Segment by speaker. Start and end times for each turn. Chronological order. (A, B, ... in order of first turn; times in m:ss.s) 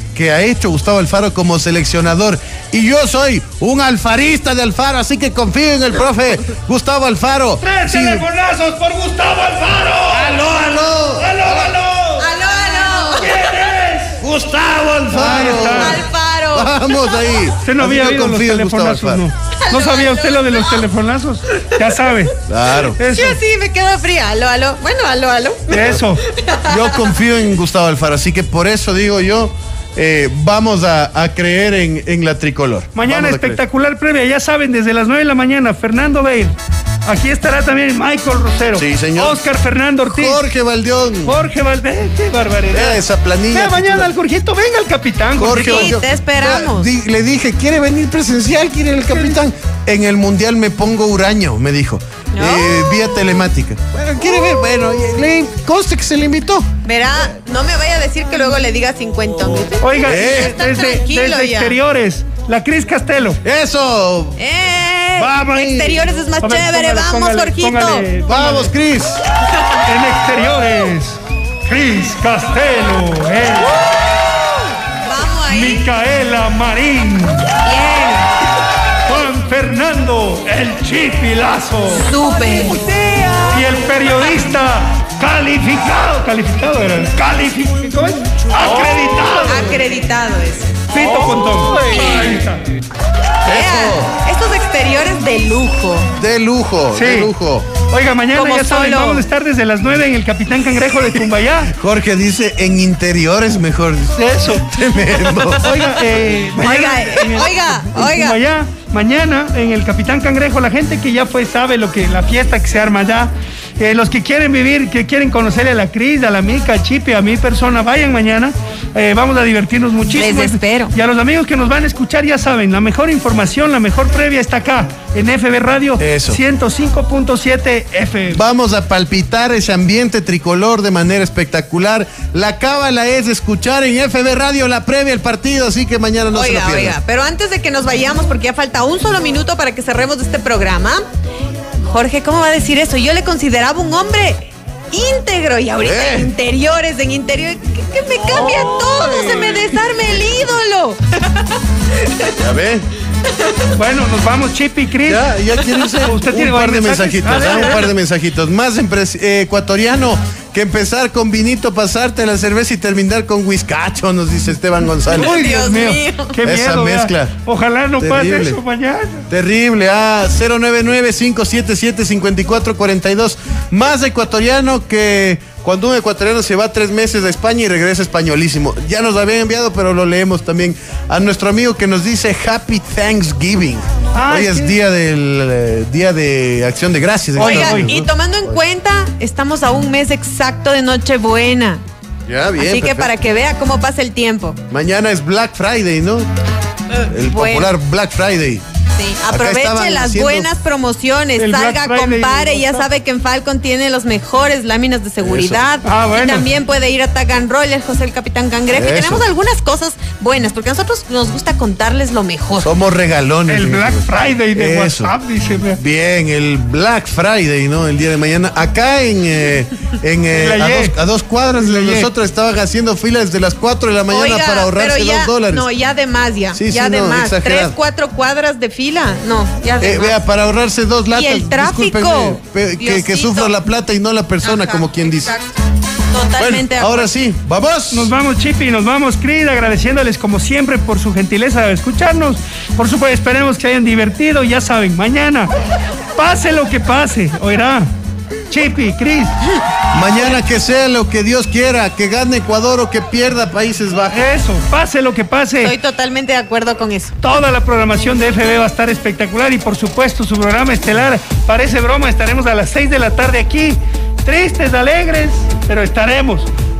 0:00.1-0:08.2 A
0:07.6-0:10.4 B
0:10.1-0:11.7 A
0:11.2-0:14.2 B
0:12.2-0:13.4 C
0:14.2-0:19.2 A
0:15.1-0:16.0 B
0:15.4-0:17.0 C
0:17.6-0:22.3 B
0:19.6-0:20.8 C
0:22.5-0:23.0 A
0:23.0-0:23.4 B
0:23.0-0:27.1 C
0:25.7-0:26.2 B
0:26.7-0:33.6 A
0:32.9-0:36.6 B
0:37.1-0:40.4 B
0:38.7-0:39.5 A
0:40.0-0:41.4 A
0:41.3-0:45.9 B
0:42.7-0:44.1 A
0:45.4-0:56.7 A
0:45.5-0:46.9 C
0:52.3-0:53.1 C
0:56.8-1:01.8 C
0:59.8-1:03.4 B
1:00.1-1:00.6 A
1:03.4-1:04.4 A
1:04.4-1:08.1 C
1:05.2-1:06.1 A
1:06.4-1:08.7 B
1:08.2-1:09.2 A
1:09.9-1:13.7 B
1:13.8-1:14.2 C
1:15.0-1:15.9 C
1:15.5-1:17.5 B
1:17.6-1:18.3 C
1:19.1-1:22.1 B
1:21.9-1:23.4 C
1:23.5-1:29.8 B
1:29.4-1:30.8 C
1:30.9-1:32.6 B
1:31.9-1:32.4 C
1:33.4-1:36.1 C
1:33.4-1:34.1 A
1:36.2-1:37.7 A
1:36.9-1:37.3 B
1:37.9-1:41.7 B
1:38.4-1:39.3 C
1:41.7-1:45.8 A
1:44.2-1:44.6 B
1:45.6-2:08.4 B
1:46.6-1:48.4 C
2:00.1-2:00.9 C
2:06.0-2:06.4 A
2:08.3-2:17.0 A
2:16.3-2:21.0 C
2:21.9-2:31.4 C
2:25.8-2:26.3 A
2:32.0-2:32.4 C
2:32.4-2:32.9 A
2:33.8-2:35.3 B
2:35.0-2:45.8 A
2:36.0-2:37.8 B
2:45.1-2:46.3 C
2:45.2-2:49.3 B
2:46.4-2:47.3 A
2:48.0-2:48.6 A
2:49.3-3:08.6 A
3:04.1-3:04.7 B
3:07.4-3:07.9 B
3:07.4-3:11.8 C
3:12.3-3:13.1 A
3:12.6-3:14.6 C
3:14.7-3:16.3 A
3:16.9-3:17.7 C
3:17.1-3:18.6 A
3:19.0-3:32.7 C
3:19.3-3:20.5 A
3:21.4-3:22.9 B
3:25.2-3:25.6 A
3:25.8-3:26.5 B
3:28.7-3:29.3 A
3:32.6-3:35.1 A
3:33.5-3:35.8 B
3:35.8-3:45.7 A
3:40.3-3:40.9 B
3:41.6-3:42.1 B
3:44.1-3:50.2 C
3:46.5-3:47.7 A
3:49.8-3:55.4 A
3:51.1-3:53.5 C
3:54.4-3:55.6 C
3:56.1-3:57.1 C
3:56.4-3:58.1 A
3:57.9-4:05.5 B
4:06.2-4:07.9 B
4:08.5-4:09.4 B
4:09.9-4:14.3 A
4:14.1-4:15.7 B
4:15.6-4:17.2 C
4:17.2-4:26.5 B